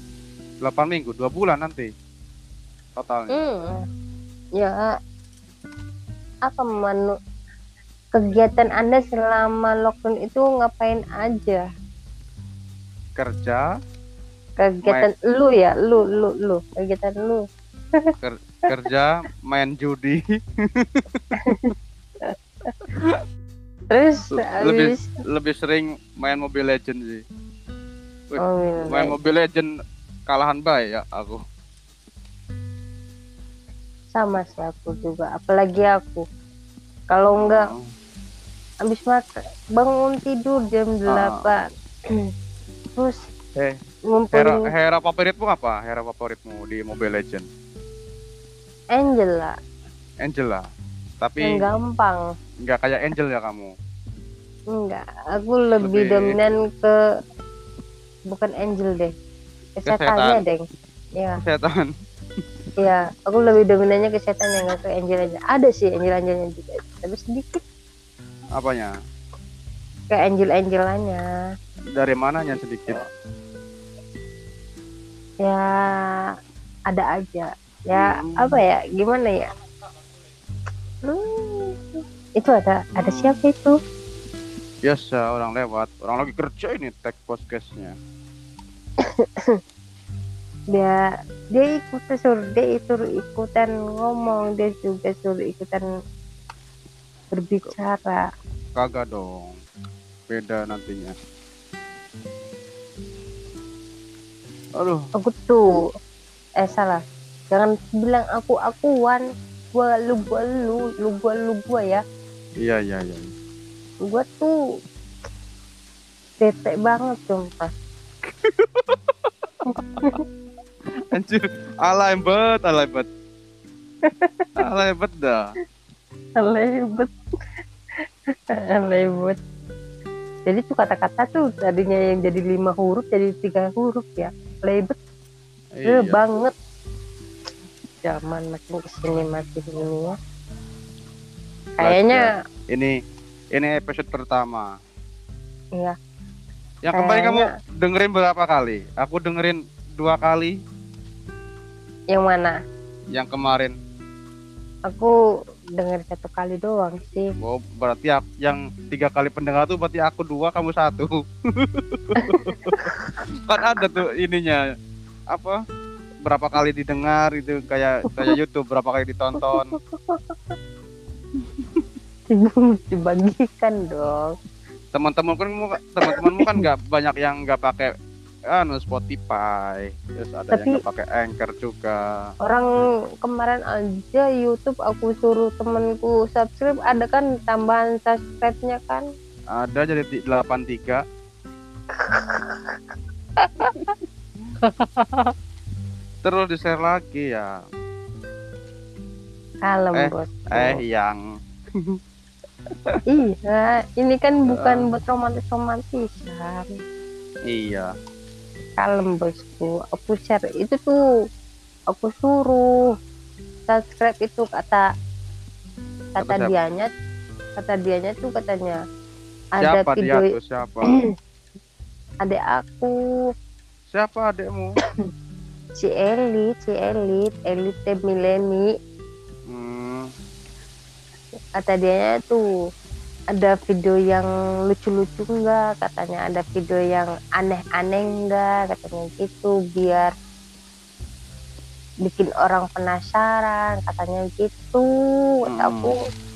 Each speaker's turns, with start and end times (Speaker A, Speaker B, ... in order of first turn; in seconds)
Speaker A: 0.6-1.9, 3.0-3.4, 13.2-13.6, 18.2-20.2, 20.7-21.3, 24.3-27.2, 28.3-29.7, 30.3-31.4, 37.4-37.9, 41.1-41.4, 44.3-47.5, 50.2-50.6, 51.2-51.6, 52.6-53.7, 55.8-56.3, 59.9-60.4, 61.4-61.9, 68.5-68.9, 72.0-73.0, 77.9-78.6, 83.0-83.3, 84.8-87.9, 98.7-99.5, 100.3-101.1, 104.8-105.0, 112.6-113.3, 118.4-119.3, 119.8-120.1, 121.1-123.1, 124.6-125.4, 135.7-136.2, 141.8-142.9, 143.5-144.7, 146.8-150.5, 153.1-153.7, 157.4-162.9, 163.4-164.6, 166.2-169.7, 174.9-177.9, 178.5-182.0, 189.5-191.0, 196.2-197.5, 199.9-201.2, 204.5-204.9, 207.4-207.9, 216.2-216.5, 219.6-220.9, 223.9-224.7, 229.5-230.1, 245.5-245.9
Speaker B: 3.3-3.8, 4.6-4.8, 6.5-7.1, 8.1-11.6, 14.6-17.4, 21.4-21.7, 22.2-22.8, 23.9-25.1, 28.4-29.1, 34.1-36.2, 37.1-37.7, 38.9-41.7, 44.1-44.7, 48.9-49.5, 51.4-52.2, 54.7-56.9, 58.3-59.1, 59.8-60.6, 62.8-67.6, 70.1-71.2, 75.4-76.2, 76.9-79.4, 81.0-83.8, 89.2-89.6, 91.5-95.8, 97.3-98.2, 105.2-105.7, 106.6-107.0, 107.5-112.0, 114.1-114.5, 116.4-117.7, 119.7-120.2, 124.1-124.6, 126.4-127.1, 128.8-129.4, 130.5-134.9, 135.9-136.5, 138.0-140.1, 141.8-142.3, 146.9-147.4, 152.1-152.6, 155.8-157.3, 162.2-162.9, 169.4-170.5, 172.3-174.3, 176.1-176.6, 180.5-180.8, 183.2-189.0, 191.9-192.7, 193.4-193.9, 194.6-195.3, 199.7-200.8, 203.1-206.7, 208.8-210.9, 211.9-212.7, 213.7-214.8, 216.2-216.9, 217.6-218.8, 219.6-220.3, 222.2-222.9, 225.8-228.7, 231.6-232.4, 233.3-240.1, 242.0-244.8, 245.5-245.9